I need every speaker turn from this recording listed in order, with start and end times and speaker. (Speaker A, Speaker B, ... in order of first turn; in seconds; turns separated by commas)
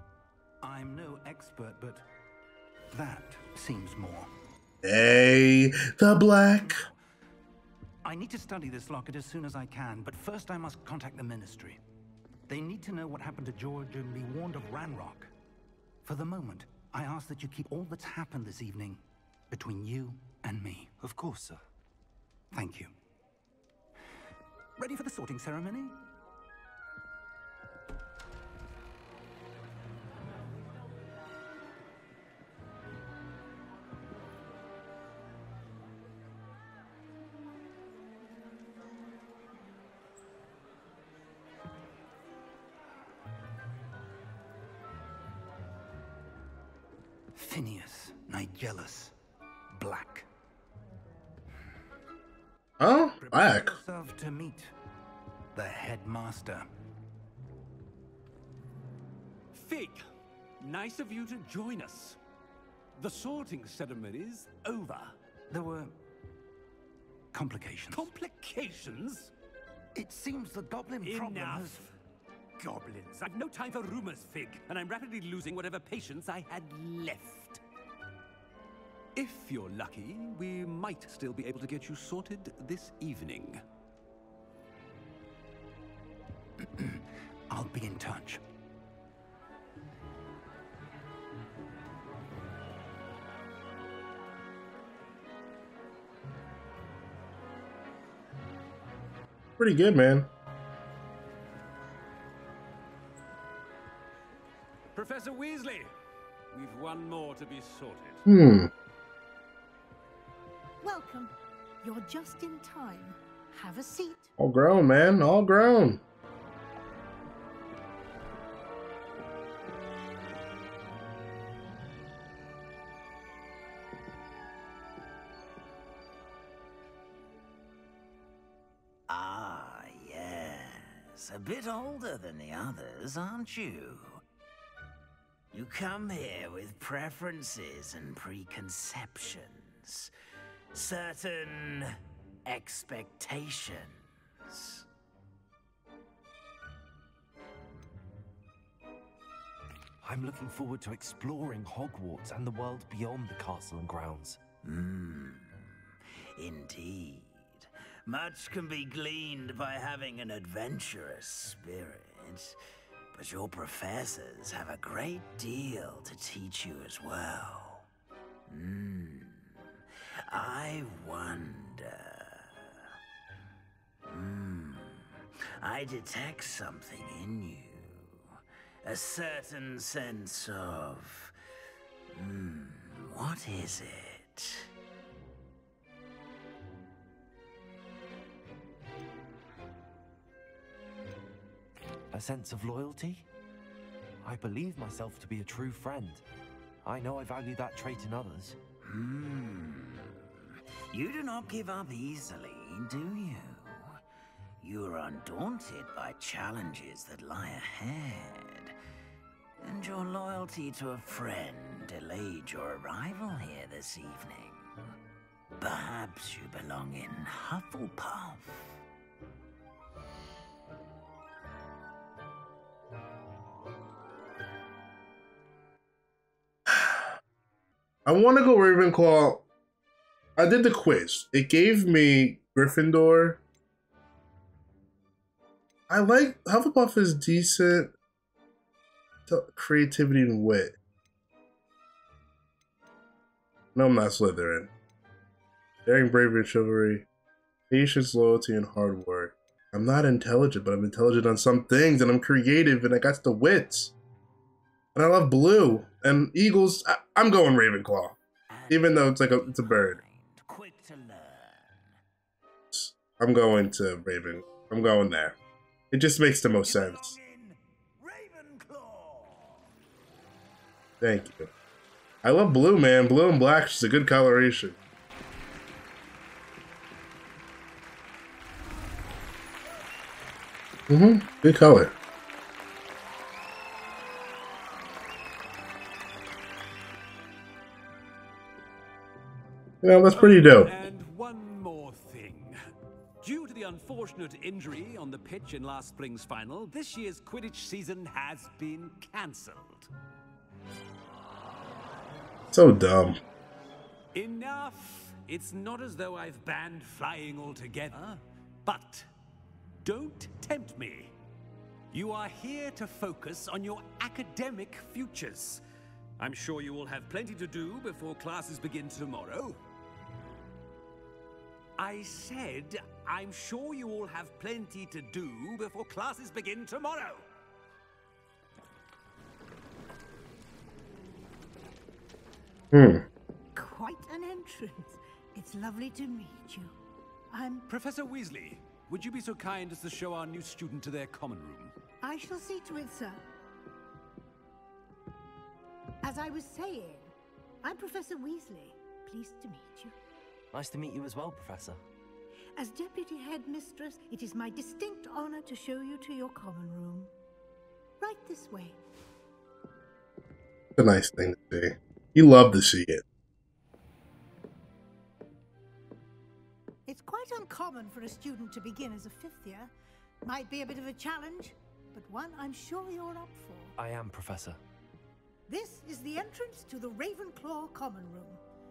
Speaker A: 0.6-2.0, Speaker A: 2.9-4.3, Speaker B: 4.8-6.8, Speaker A: 6.6-7.0, Speaker A: 8.0-11.8, Speaker A: 12.5-15.3, Speaker A: 16.0-21.2, Speaker C: 21.1-21.6, Speaker A: 22.5-22.9, Speaker A: 24.8-26.0, Speaker A: 47.4-49.1, Speaker A: 49.7-50.3, Speaker B: 52.8-53.8, Speaker A: 53.2-54.7, Speaker A: 55.5-56.7, Speaker D: 59.5-60.0, Speaker D: 60.6-62.2, Speaker D: 63.0-65.2, Speaker A: 65.5-65.9, Speaker A: 67.3-68.1, Speaker D: 67.9-69.3, Speaker A: 70.0-71.9, Speaker D: 71.0-71.9, Speaker D: 72.6-77.6, Speaker D: 79.2-83.6, Speaker A: 86.6-88.4, Speaker B: 99.6-100.3, Speaker D: 105.0-105.9, Speaker D: 106.5-108.2, Speaker B: 108.3-108.7, Speaker E: 110.8-114.3, Speaker B: 114.4-116.0, Speaker F: 129.1-134.2, Speaker F: 135.5-140.1, Speaker F: 140.7-141.9, Speaker F: 142.5-144.0, Speaker F: 144.5-144.8, Speaker C: 150.0-154.4, Speaker F: 154.6-155.7, Speaker F: 156.4-162.6, Speaker F: 163.1-167.9, Speaker F: 168.5-169.5, Speaker F: 170.3-172.7, Speaker F: 174.1-178.3, Speaker F: 178.8-181.3, Speaker F: 182.1-184.7, Speaker C: 192.1-193.3, Speaker C: 194.2-196.2, Speaker C: 196.8-198.6, Speaker F: 198.8-200.2, Speaker F: 200.9-204.0, Speaker F: 204.6-208.8, Speaker F: 209.6-214.7, Speaker F: 215.6-218.6, Speaker B: 226.7-227.1, Speaker B: 228.1-229.4, Speaker B: 230.4-233.4, Speaker B: 235.9-237.9, Speaker B: 239.3-240.8, Speaker B: 243.8-244.7, Speaker B: 245.9-247.1, Speaker B: 247.7-253.9, Speaker B: 254.9-258.1, Speaker F: 258.5-261.8, Speaker B: 258.7-260.0, Speaker B: 262.7-265.4, Speaker B: 265.9-267.2, Speaker D: 266.7-269.3, Speaker B: 271.0-271.5, Speaker B: 272.2-274.8, Speaker B: 280.9-281.9, Speaker B: 289.8-290.7, Speaker D: 290.1-292.6, Speaker D: 293.2-299.9, Speaker B: 302.5-303.2, Speaker D: 304.1-309.1, Speaker D: 309.8-311.1, Speaker D: 311.9-315.6, Speaker D: 316.2-319.6, Speaker D: 321.8-327.3, Speaker B: 332.7-333.1, Speaker E: 333.6-336.7, Speaker E: 337.3-337.7, Speaker D: 337.7-341.7, Speaker E: 342.0-343.2, Speaker E: 346.0-347.1, Speaker E: 347.6-349.9, Speaker C: 350.5-351.8, Speaker E: 352.6-357.1, Speaker E: 358.0-358.8, Speaker B: 360.8-363.0, Speaker E: 366.9-369.7, Speaker E: 370.2-373.7, Speaker C: 373.8-374.6, Speaker E: 375.5-378.4